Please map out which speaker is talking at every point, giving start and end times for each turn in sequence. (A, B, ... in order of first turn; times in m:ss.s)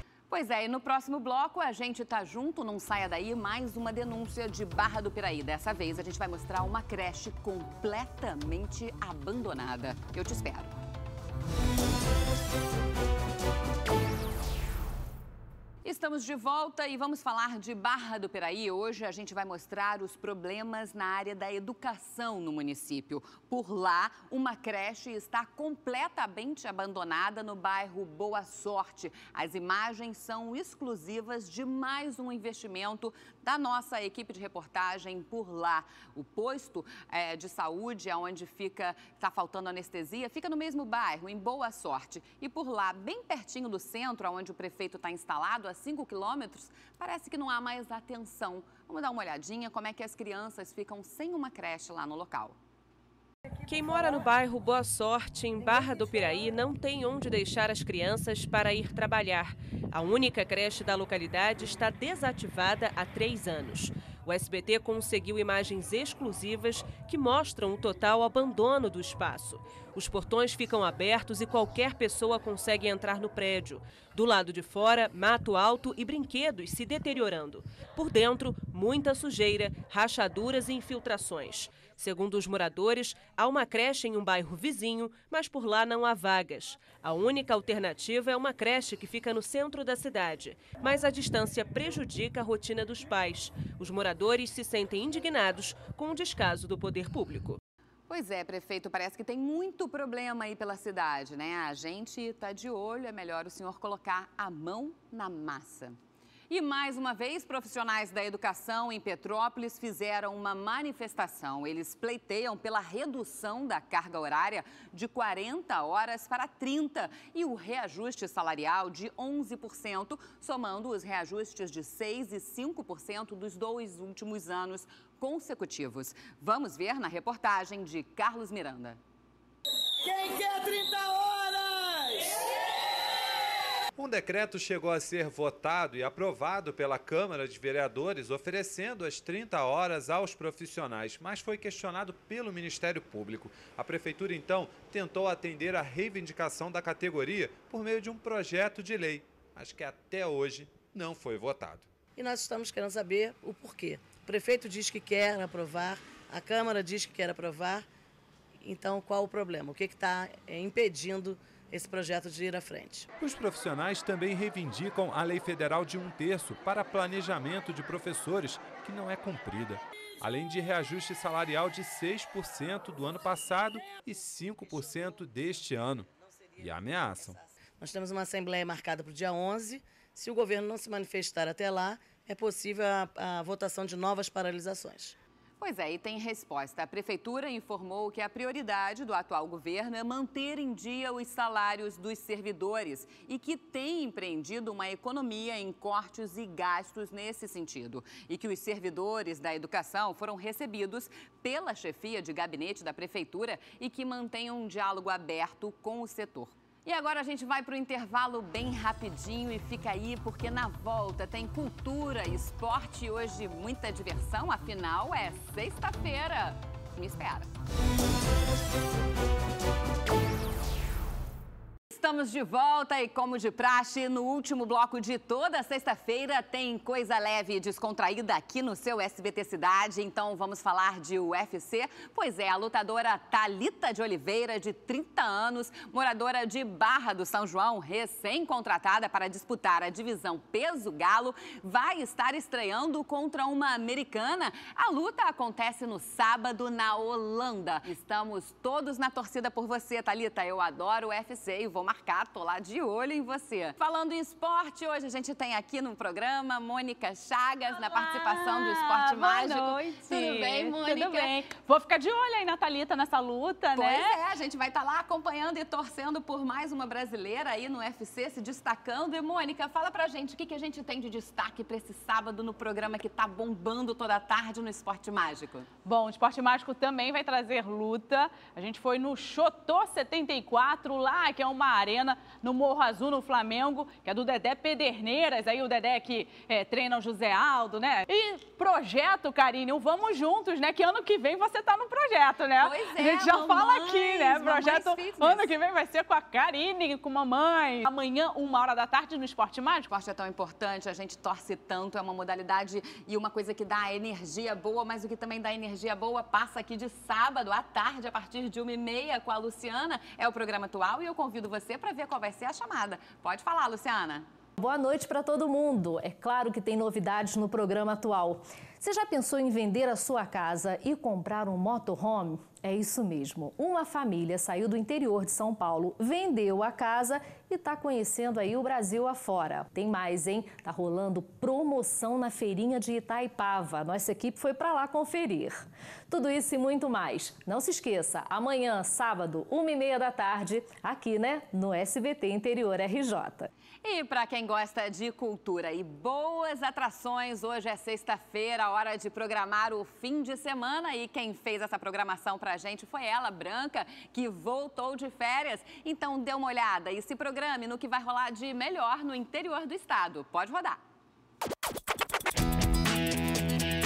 0:00.3-0:10.7 A
0:15.8-0:52.6 A
0:53.6-1:37.6 B
1:38.1-1:46.0 A
1:46.5-2:09.0 A
2:14.0-2:31.9 C
2:32.2-2:37.8 D
2:38.6-2:43.1 D
2:43.2-2:56.1 C
2:56.6-2:57.4 C
2:57.8-3:05.1 D
3:05.6-3:37.5 A
3:41.9-4:21.3 A
4:17.9-4:24.2 E
4:23.7-4:35.7 A
4:35.8-4:59.9 E
4:52.6-4:55.5 A
4:59.9-5:14.2 A
5:14.6-5:17.4 F
5:18.8-5:20.0 F
5:22.5-5:25.4 F
5:25.9-5:26.8 F
5:27.4-5:35.4 F
5:36.1-5:43.5 F
5:43.8-6:00.8 A